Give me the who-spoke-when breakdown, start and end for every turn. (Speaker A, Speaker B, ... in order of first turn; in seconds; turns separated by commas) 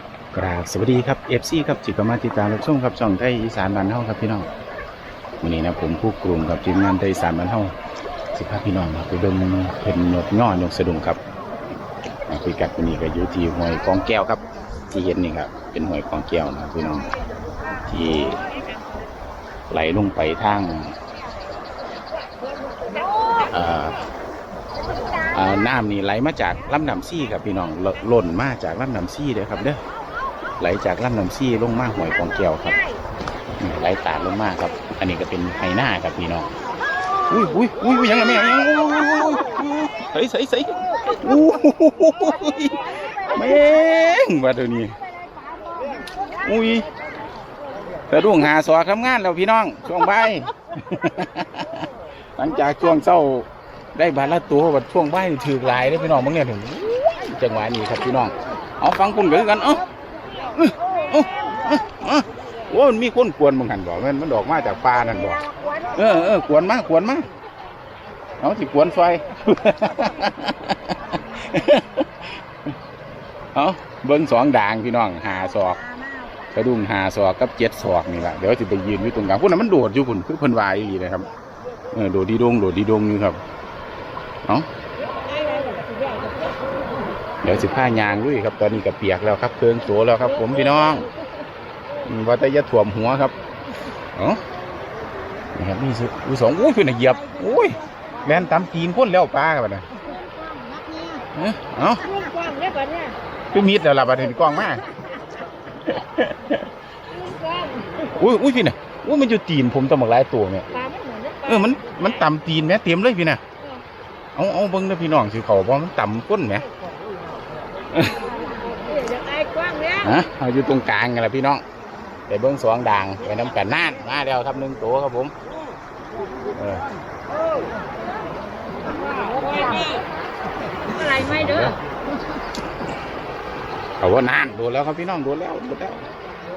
Speaker A: 0.3-4.5, Speaker A: 5.4-7.7, Speaker A: 8.3-11.2, Speaker A: 12.3-14.4, Speaker A: 14.9-17.1, Speaker A: 17.8-18.4, Speaker B: 18.4-18.8, Speaker A: 19.7-20.9, Speaker B: 22.3-23.5, Speaker A: 23.5-24.0, Speaker B: 25.0-25.3, Speaker A: 25.3-29.8, Speaker A: 30.6-32.8, Speaker A: 33.6-36.5, Speaker A: 37.3-45.0, Speaker B: 42.9-43.3, Speaker B: 45.8-46.4, Speaker A: 46.4-46.9, Speaker A: 48.1-59.9, Speaker A: 60.5-67.3, Speaker B: 61.0-61.5, Speaker B: 65.6-65.9, Speaker A: 68.4-72.1, Speaker A: 73.5-75.8, Speaker B: 75.9-76.3, Speaker A: 76.5-81.3, Speaker A: 81.9-83.4, Speaker B: 85.1-86.7, Speaker A: 87.4-91.1, Speaker B: 90.5-91.0, Speaker A: 92.0-93.3, Speaker A: 94.2-94.4, Speaker A: 95.6-99.8, Speaker B: 100.0-101.2, Speaker A: 101.3-102.1, Speaker B: 102.0-103.2, Speaker A: 103.5-104.8, Speaker A: 105.8-106.6, Speaker B: 107.1-108.1, Speaker A: 108.1-110.7, Speaker B: 110.7-112.2, Speaker A: 111.5-113.4, Speaker A: 114.4-116.7, Speaker A: 117.9-118.2, Speaker B: 118.0-120.2, Speaker A: 120.0-121.6, Speaker A: 122.3-125.3, Speaker A: 126.5-126.8, Speaker B: 127.4-127.7, Speaker B: 128.8-130.0, Speaker B: 130.8-131.8, Speaker A: 131.0-131.8, Speaker A: 134.0-136.1